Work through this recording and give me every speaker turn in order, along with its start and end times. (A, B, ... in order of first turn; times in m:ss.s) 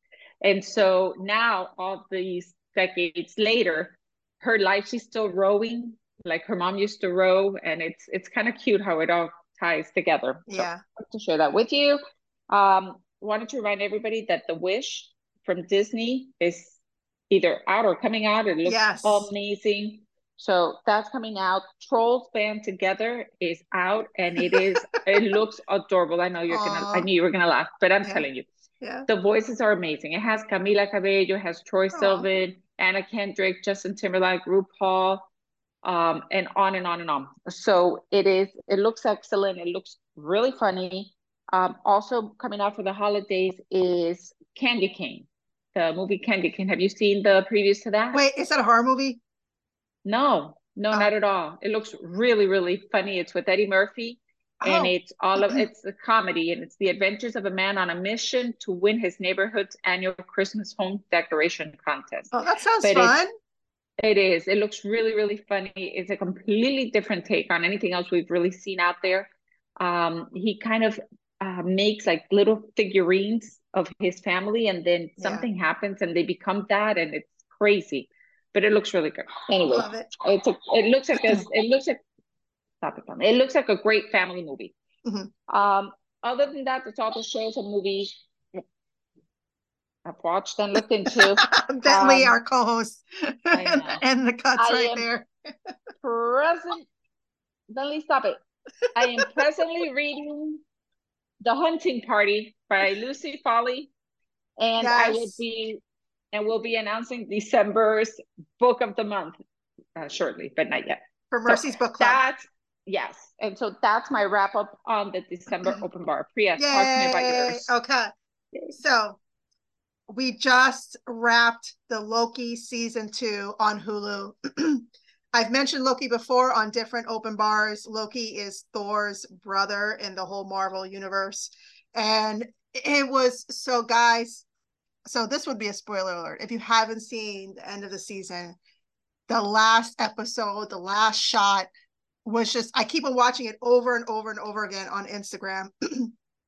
0:00.4-0:16.8 A
0:10.5-0:10.8 B
0:17.3-0:28.5 A
0:18.6-0:19.3 B
0:24.4-0:24.7 B
0:26.5-0:27.1 B
0:28.8-0:29.1 B
0:29.1-0:35.3 A
0:31.9-0:32.3 B
0:35.8-0:48.2 A
0:48.1-0:49.2 B
0:50.0-1:03.2 A
0:54.6-0:55.7 B
1:02.3-1:03.3 B
1:04.0-1:22.0 A
1:15.2-1:15.5 B
1:19.7-1:20.1 B
1:22.8-1:24.7 A
1:25.0-1:25.3 B
1:25.5-1:28.6 A
1:30.1-1:32.4 A
1:31.1-1:35.3 B
1:33.5-1:34.0 A
1:34.6-1:35.1 A
1:36.0-1:36.9 A
1:37.7-1:38.4 A
1:39.0-1:40.6 A
1:41.4-1:43.9 A
1:44.6-1:45.8 A
1:44.8-1:45.4 B
1:46.3-1:49.4 A
1:50.0-1:57.7 A
1:51.3-1:52.2 B
1:55.6-1:55.8 B
1:56.6-1:58.1 B
1:58.8-1:59.2 B
2:00.1-2:14.5 B
2:15.1-2:18.6 B
2:19.3-2:21.7 B
2:22.2-2:26.1 B